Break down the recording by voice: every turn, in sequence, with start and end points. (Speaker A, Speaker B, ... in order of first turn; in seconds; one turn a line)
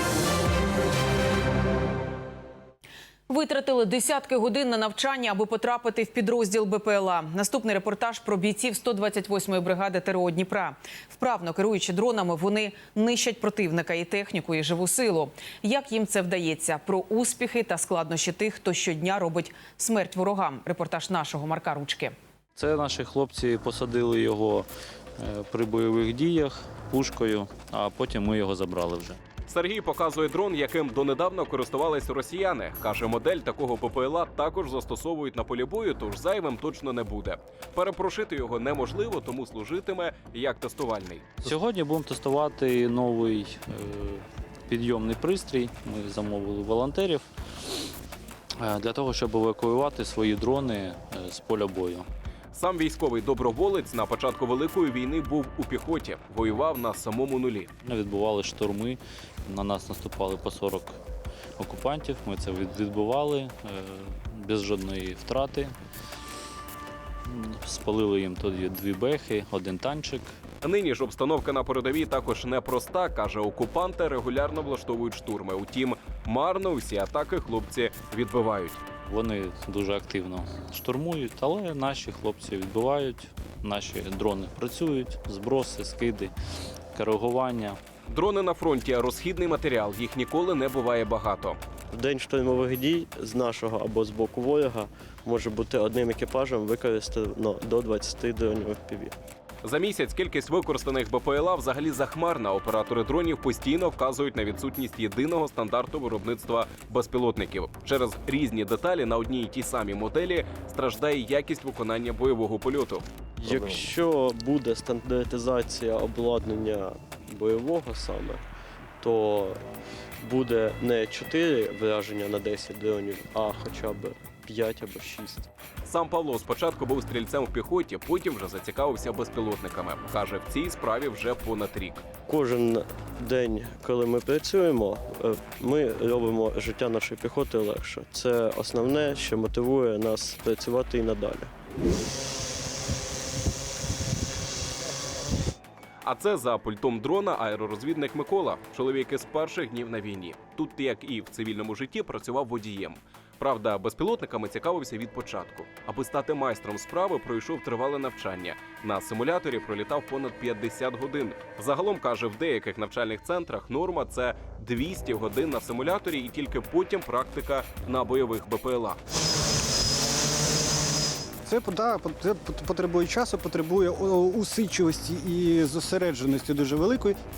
Speaker A: 3.3-22.1
Speaker B: 22.6-24.7
Speaker B: 25.2-29.2
Speaker C: 29.5-41.4
Speaker B: 41.4-47.3
Speaker B: 48.6-52.1
Speaker C: 52.5-57.7
Speaker B: 57.9-61.0
Speaker B: 61.6-65.7
Speaker B: 67.3-70.3
Speaker C: 70.6-78.8
Speaker B: 79.1-86.3
Speaker B: 87.0-87.8
Speaker C: 88.1-91.6
Speaker D: 91.9-99.2
Speaker C: 99.6-113.1
Speaker D: 113.4-118.4
Speaker D: 119.0-119.6
Speaker D: 120.2-125.5
Speaker C: 125.8-132.0
Speaker D: 132.3-141.5
Speaker C: 146.0-169.0
Speaker E: 171.5-177.2